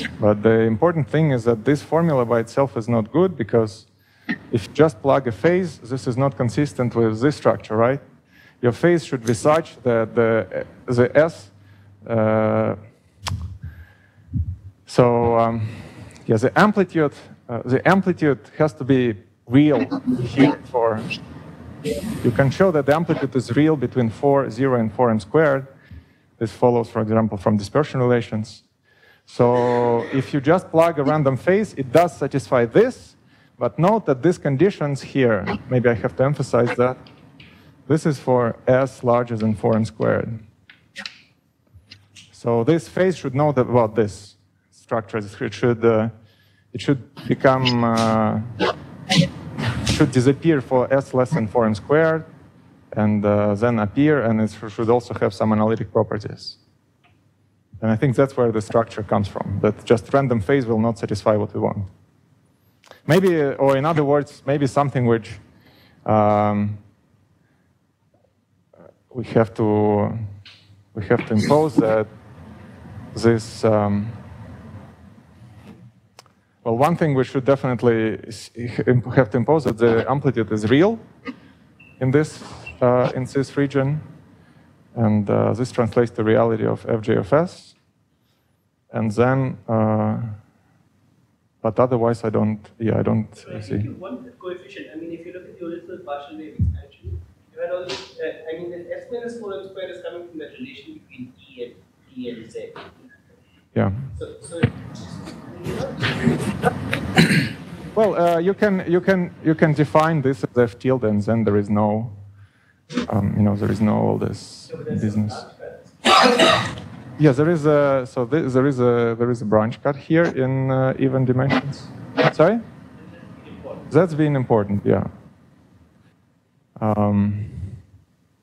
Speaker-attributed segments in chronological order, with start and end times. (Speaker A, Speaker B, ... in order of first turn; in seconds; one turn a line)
Speaker A: 0.2-3.9
Speaker A: 4.5-8.0
Speaker A: 8.6-11.5
Speaker A: 12.0-12.8
Speaker A: 14.9-21.1
Speaker A: 22.2-25.7
Speaker A: 26.4-28.6
Speaker A: 29.3-37.0
Speaker A: 37.9-40.4
Speaker A: 42.3-46.1
Speaker A: 46.7-48.5
Speaker A: 49.8-52.3
Speaker A: 52.9-56.6
Speaker A: 57.8-61.9
Speaker A: 63.0-65.4
Speaker A: 66.0-66.8
Speaker A: 69.1-70.3
Speaker A: 70.9-72.1
Speaker A: 73.1-74.2
Speaker A: 76.6-81.1
Speaker A: 82.0-84.0
Speaker A: 84.9-87.7
Speaker A: 88.9-90.4
Speaker A: 91.6-93.9
Speaker B: 93.4-102.8
Speaker B: 104.2-104.7
Speaker B: 105.5-106.2
Speaker A: 107.9-112.2
Speaker A: 113.1-115.4
Speaker B: 114.7-115.9
Speaker A: 117.2-122.6
Speaker B: 123.0-123.8
Speaker A: 123.9-125.1
Speaker A: 126.8-127.7